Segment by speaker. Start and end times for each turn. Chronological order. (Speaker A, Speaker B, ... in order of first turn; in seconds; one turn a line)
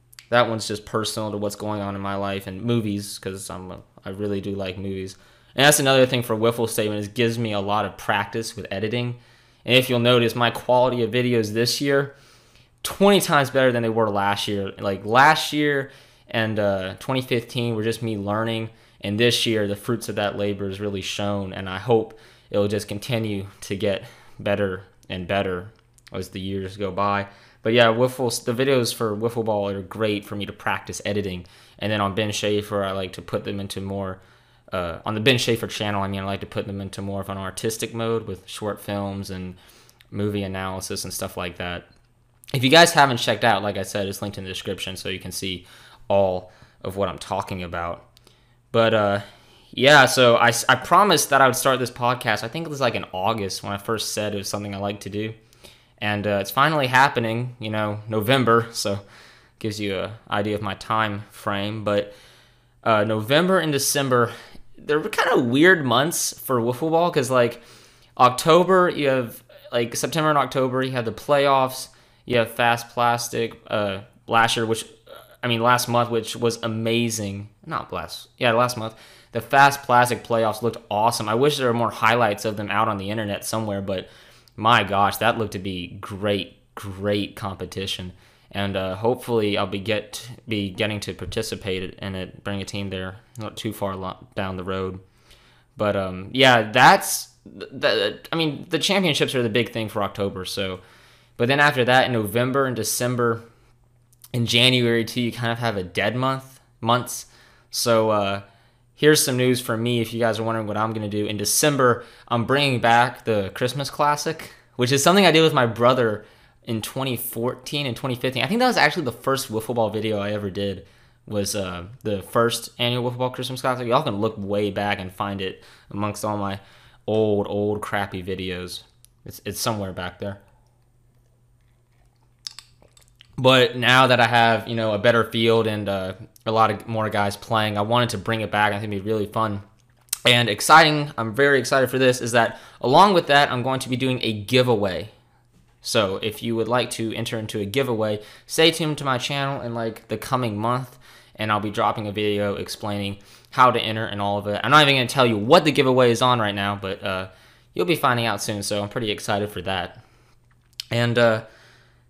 Speaker A: 0.3-12.2
Speaker A: 12.8-34.2
Speaker A: 34.7-39.6
Speaker A: 40.1-41.9
Speaker A: 42.5-48.1
Speaker A: 48.7-55.4
Speaker A: 56.0-59.0
Speaker A: 59.6-62.1
Speaker A: 62.8-67.6
Speaker A: 68.2-74.9
Speaker A: 75.4-95.0
Speaker A: 95.8-100.8
Speaker A: 101.4-103.4
Speaker A: 104.3-108.4
Speaker A: 109.0-130.4
Speaker A: 133.4-139.6
Speaker A: 140.3-145.1
Speaker A: 145.8-160.0
Speaker A: 160.9-161.4